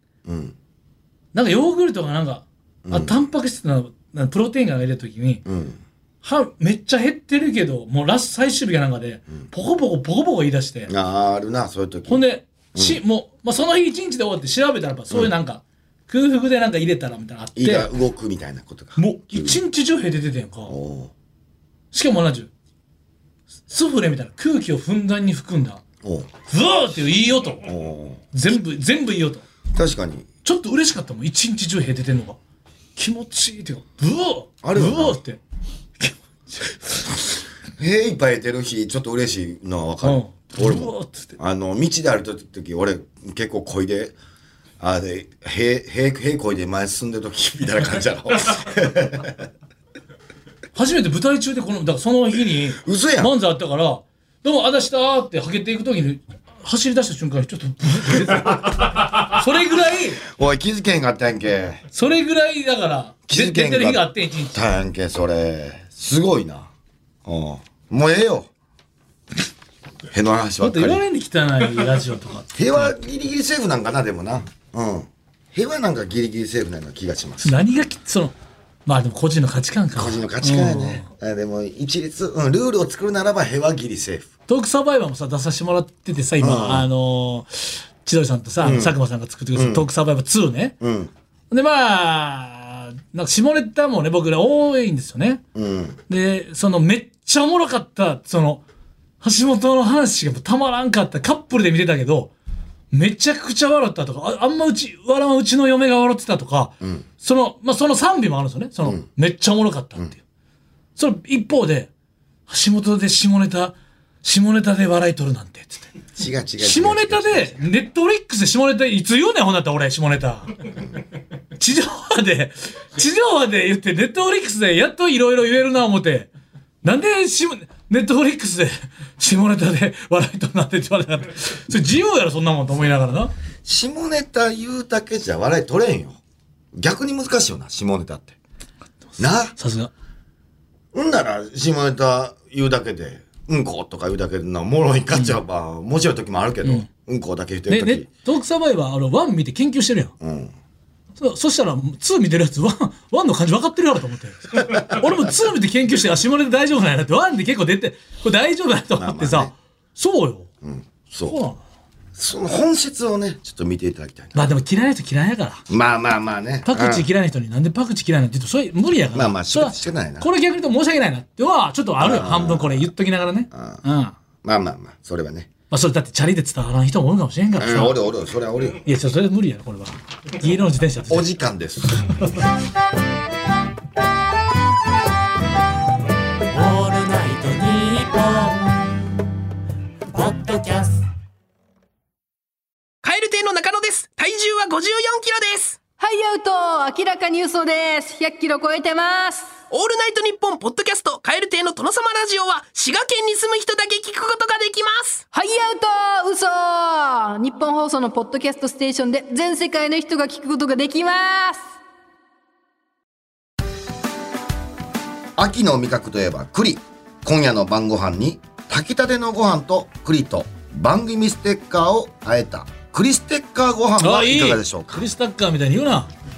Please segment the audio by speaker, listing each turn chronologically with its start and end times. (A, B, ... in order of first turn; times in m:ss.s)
0:00.2-0:00.5 A
0:01.3-0:05.4 B
0:02.8-0:03.2 A
0:05.4-0:05.8 A
0:06.2-0:10.9 B
0:10.9-0:13.0 A
0:12.0-0:17.9 B
0:17.5-0:19.6 A
0:19.0-0:20.7 B
0:20.7-0:21.1 A
0:21.9-0:22.5 B
0:23.7-0:25.8 B
0:26.0-0:26.3 A
0:26.5-0:27.6 B
0:27.6-0:28.3 A
0:28.3-0:29.4 B
0:29.7-0:30.3 A
0:30.4-0:32.4 B
0:33.0-0:35.4 B
0:34.6-0:35.2 A
0:36.0-0:37.0 B
0:37.8-0:44.1 A
0:40.0-0:41.4 B
0:44.8-0:49.5 A
0:50.7-1:00.2 B
0:52.8-0:53.3 A
1:00.3-1:01.8 A
1:01.9-1:04.6 B
1:03.3-1:06.7 A
1:07.2-1:08.5 A
1:10.1-1:11.0 A
1:10.6-1:12.9 B
1:12.5-1:17.6 A
1:17.4-1:18.3 B
1:18.8-1:21.1 B
1:19.9-1:24.3 A
1:24.5-1:30.8 B
1:26.4-1:26.9 A
1:28.6-1:29.0 A
1:29.5-1:29.9 A
1:30.8-1:31.1 A
1:31.5-1:35.4 B
1:35.5-1:36.0 A
1:36.1-1:38.6 B
1:39.2-1:42.3 B
1:42.9-1:50.2 B
1:51.0-1:51.9 B
1:52.5-1:55.9 B
1:56.2-1:57.6 A
1:56.6-2:00.5 B
2:01.6-2:06.3 B
2:06.8-2:13.3 B
2:13.6-2:16.2 A
2:16.7-2:18.3 A
2:19.2-2:19.5 A
2:19.5-2:19.9 B
2:20.9-2:28.0 A
2:27.7-2:30.1 B
2:30.2-2:30.5 A
2:31.2-2:40.5 B
2:34.6-2:34.9 A
2:39.0-2:39.5 A
2:40.6-2:41.3 A
2:41.2-2:41.6 B
2:42.1-2:44.4 A
2:44.3-2:45.6 B
2:45.7-2:47.1 A
2:46.6-2:54.1 B
2:49.1-2:50.3 A
2:52.0-2:52.9 A
2:53.5-2:53.8 A
2:54.4-2:55.5 A
2:55.7-2:58.0 B
2:57.6-2:58.8 A
2:58.8-3:01.3 B
3:01.1-3:02.1 A
3:06.5-3:08.8 C
3:10.1-3:11.0 C
3:13.0-3:15.8 D
3:16.0-3:19.6 E
3:19.7-3:25.2 D
3:25.3-3:31.7 E
3:35.4-3:45.0 A
3:44.0-3:46.1 B